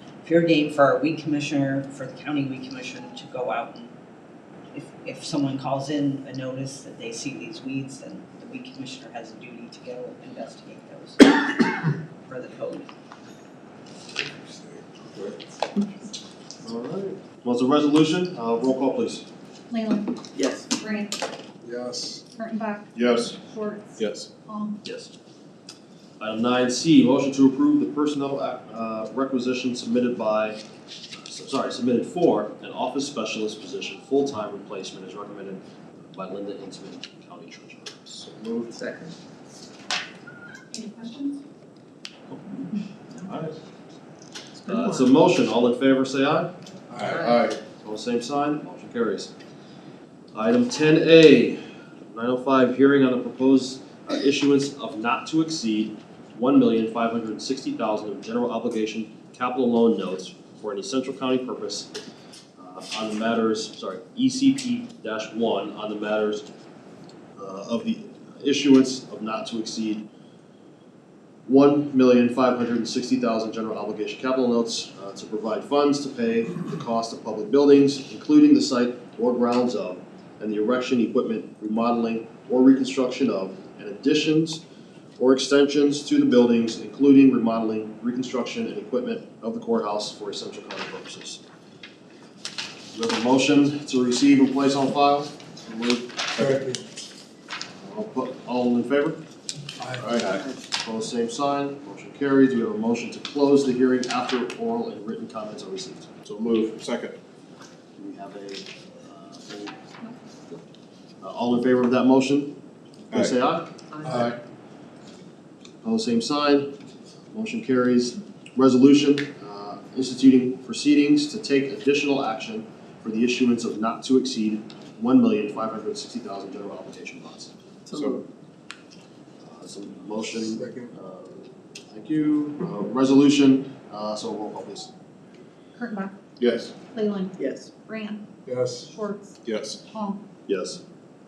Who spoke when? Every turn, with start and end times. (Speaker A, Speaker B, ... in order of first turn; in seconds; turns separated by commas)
Speaker A: 0.2-3.9, Speaker A: 4.7-12.9, Speaker B: 14.2-15.3, Speaker C: 16.6-19.3, Speaker D: 19.7-20.1, Speaker D: 20.7-21.2, Speaker B: 21.6-22.2, Speaker D: 22.3-24.8, Speaker E: 24.0-24.3, Speaker C: 24.8-25.2, Speaker C: 26.2-30.6, Speaker C: 31.1-38.2, Speaker B: 38.2-38.8, Speaker D: 40.7-41.4, Speaker C: 44.6-46.5, Speaker B: 46.9-47.5, Speaker C: 47.8-49.3, Speaker C: 50.3-61.9, Speaker C: 62.6-66.5, Speaker C: 67.4-70.1, Speaker C: 71.5-84.6, Speaker C: 85.2-91.4, Speaker C: 92.9-96.2, Speaker B: 96.4-96.8, Speaker C: 97.8-99.2, Speaker C: 100.0-106.1, Speaker E: 106.2-107.2, Speaker C: 108.0-109.8, Speaker C: 111.2-112.5, Speaker C: 113.1-113.7, Speaker B: 114.0-114.4, Speaker C: 115.8-116.7, Speaker C: 117.3-127.5, Speaker C: 129.4-134.9, Speaker B: 130.6-130.9, Speaker D: 135.8-136.1, Speaker E: 136.4-136.7, Speaker D: 136.9-138.2, Speaker B: 138.4-138.9, Speaker D: 138.8-140.2, Speaker E: 139.4-139.8, Speaker C: 140.5-140.8